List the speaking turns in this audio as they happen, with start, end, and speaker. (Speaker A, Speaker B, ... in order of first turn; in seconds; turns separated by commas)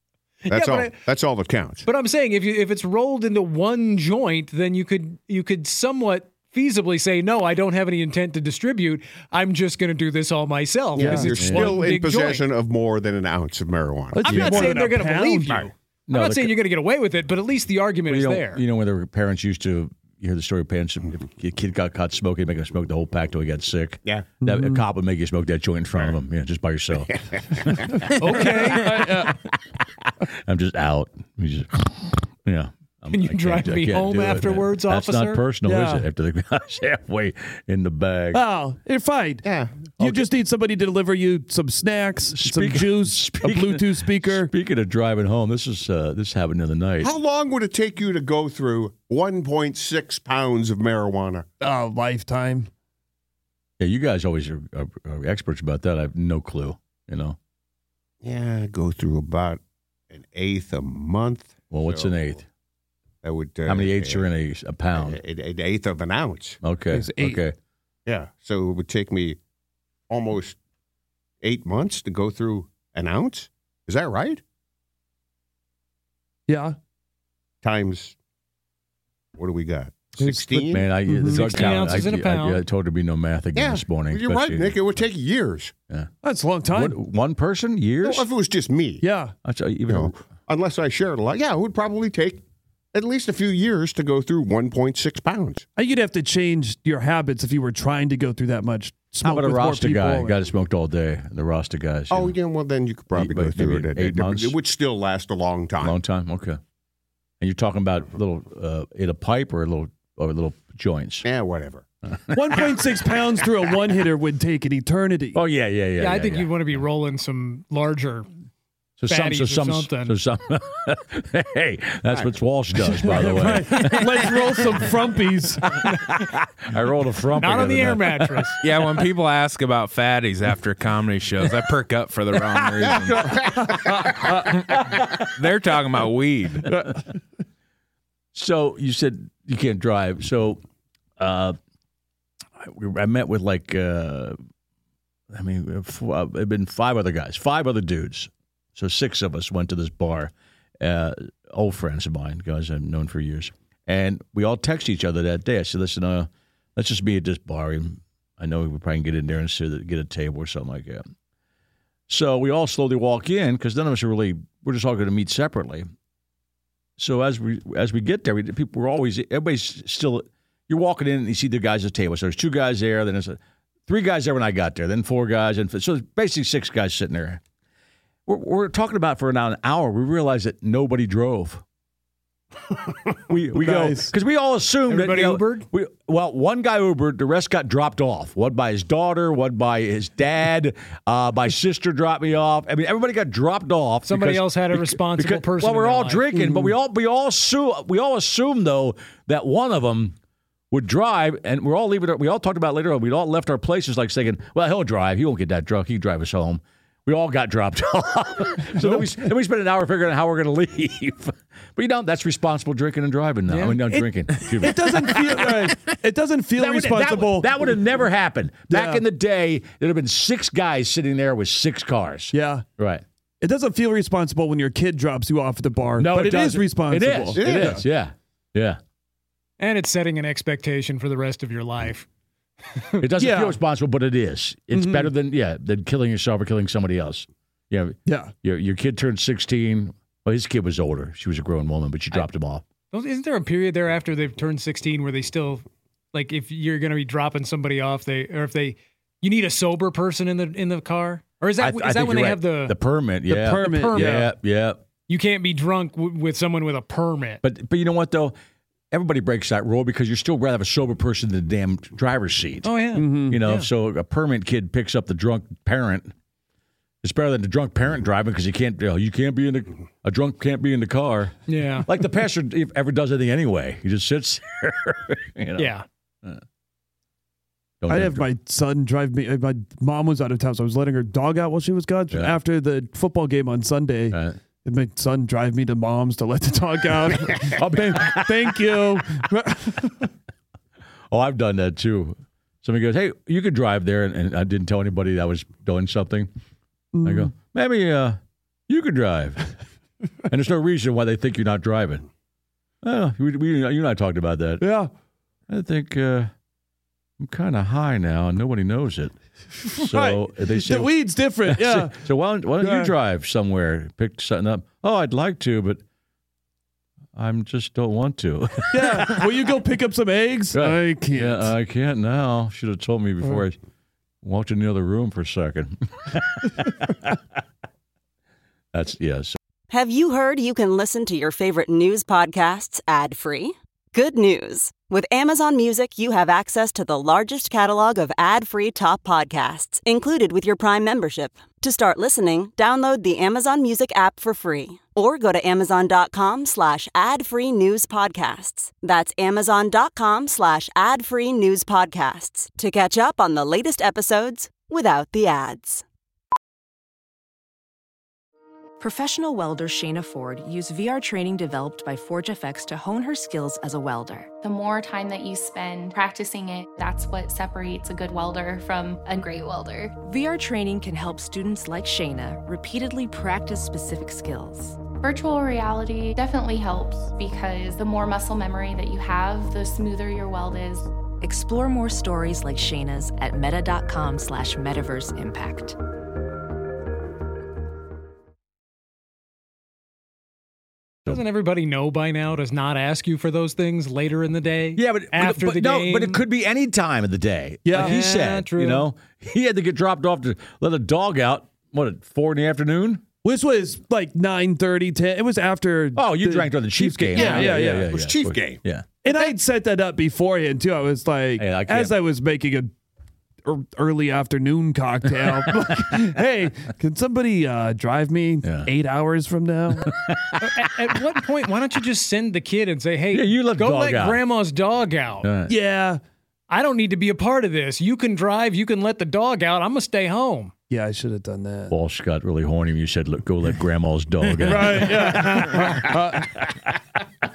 Speaker A: 0.4-0.9, Speaker B: 0.5-1.8, Speaker A: 1.8-12.4, Speaker B: 10.9-14.5, Speaker C: 11.0-11.7, Speaker D: 11.4-11.8, Speaker C: 14.1-15.7, Speaker A: 14.2-18.6, Speaker D: 14.3-14.7, Speaker D: 16.1-16.5, Speaker D: 18.1-29.3, Speaker C: 24.4-24.8, Speaker B: 27.3-28.1, Speaker A: 28.2-29.0, Speaker C: 28.3-29.4, Speaker D: 30.3-38.4, Speaker A: 33.1-35.4, Speaker C: 35.6-36.0, Speaker C: 38.3-39.4, Speaker B: 39.4-39.9, Speaker C: 40.0-44.5, Speaker D: 40.0-40.2, Speaker D: 42.3-47.1, Speaker B: 47.0-51.5, Speaker C: 51.6-52.7, Speaker D: 53.8-57.4, Speaker B: 58.2-62.4, Speaker D: 61.7-62.4, Speaker B: 63.2-64.3, Speaker D: 63.6-65.2, Speaker B: 64.9-66.6, Speaker D: 66.6-67.5, Speaker C: 66.9-67.4, Speaker B: 68.0-69.4, Speaker B: 70.1-70.6, Speaker B: 71.4-74.4, Speaker C: 76.5-76.8, Speaker B: 77.6-78.1, Speaker B: 79.3-80.8, Speaker C: 80.2-81.5, Speaker D: 80.7-85.0, Speaker A: 81.3-82.6, Speaker B: 83.5-85.7, Speaker C: 86.2-87.0, Speaker D: 86.7-88.2, Speaker B: 88.0-89.0, Speaker C: 89.0-89.3, Speaker D: 89.4-90.1, Speaker B: 89.9-92.4, Speaker B: 92.9-95.6, Speaker C: 95.8-100.4, Speaker D: 99.2-102.3, Speaker B: 102.1-106.0, Speaker D: 103.1-104.5, Speaker D: 105.8-106.6, Speaker D: 107.4-111.2, Speaker B: 111.2-111.9, Speaker D: 112.1-112.7, Speaker C: 112.3-115.4, Speaker D: 115.3-116.8, Speaker A: 116.0-118.3, Speaker D: 119.0-124.8, Speaker A: 119.1-120.2, Speaker B: 122.1-122.3, Speaker C: 123.0-125.6, Speaker D: 125.8-128.5, Speaker A: 127.4-128.6, Speaker E: 128.6-133.6, Speaker B: 133.1-134.1, Speaker C: 133.2-134.4, Speaker E: 134.5-136.7, Speaker D: 138.3-140.6, Speaker D: 141.2-141.6, Speaker D: 142.6-144.4, Speaker D: 145.3-161.1, Speaker D: 162.1-165.9, Speaker D: 167.0-177.4, Speaker D: 178.2-181.6, Speaker D: 183.3-200.1, Speaker C: 183.5-184.1, Speaker A: 184.9-185.7, Speaker A: 194.1-196.3, Speaker C: 196.3-196.7, Speaker D: 200.7-215.8, Speaker A: 213.5-213.8, Speaker C: 214.4-217.7, Speaker D: 216.6-223.0, Speaker C: 218.7-219.0, Speaker C: 222.3-222.6, Speaker C: 223.4-227.8, Speaker D: 226.0-228.8, Speaker B: 227.4-227.8, Speaker A: 229.6-232.1, Speaker A: 232.7-233.0, Speaker D: 233.0-242.6, Speaker C: 233.2-233.6, Speaker C: 234.7-235.1, Speaker C: 238.1-238.3, Speaker A: 242.9-252.8, Speaker D: 251.6-254.8, Speaker C: 253.3-254.3, Speaker A: 253.6-254.3, Speaker A: 255.1-257.4, Speaker D: 257.4-258.4, Speaker D: 258.9-266.1, Speaker A: 262.6-263.7, Speaker C: 262.9-263.4, Speaker D: 267.0-276.4, Speaker A: 271.5-271.9, Speaker A: 275.6-275.8, Speaker D: 277.8-278.3, Speaker C: 277.9-290.1, Speaker D: 284.1-284.4, Speaker D: 287.4-289.0, Speaker D: 291.1-296.3, Speaker C: 296.9-297.3, Speaker D: 297.0-299.5, Speaker D: 300.3-302.0, Speaker D: 302.8-304.7, Speaker C: 304.6-304.9, Speaker D: 305.5-306.3, Speaker D: 307.2-309.1, Speaker D: 309.6-315.8, Speaker C: 309.7-312.1, Speaker C: 312.6-312.9, Speaker D: 317.1-319.4, Speaker C: 318.7-321.5, Speaker D: 320.5-323.6, Speaker D: 324.2-327.2, Speaker D: 328.7-329.4, Speaker F: 329.7-355.8, Speaker G: 358.8-364.3, Speaker H: 364.4-370.0, Speaker G: 370.0-374.8, Speaker H: 374.9-380.9, Speaker G: 381.2-385.8, Speaker A: 391.1-396.2, Speaker D: 394.8-403.0, Speaker C: 397.6-398.0, Speaker A: 397.7-398.9, Speaker C: 403.2-407.9, Speaker D: 405.9-408.9, Speaker B: 407.1-408.6, Speaker C: 409.0-412.7, Speaker D: 411.4-411.9, Speaker C: 413.4-419.9, Speaker D: 415.2-416.1, Speaker D: 418.4-418.7, Speaker D: 419.8-420.7, Speaker A: 420.4-425.3, Speaker D: 423.1-424.2, Speaker D: 425.2-425.5, Speaker C: 425.5-426.0, Speaker A: 426.5-430.5, Speaker C: 430.7-431.7, Speaker D: 431.7-436.5, Speaker C: 434.4-436.4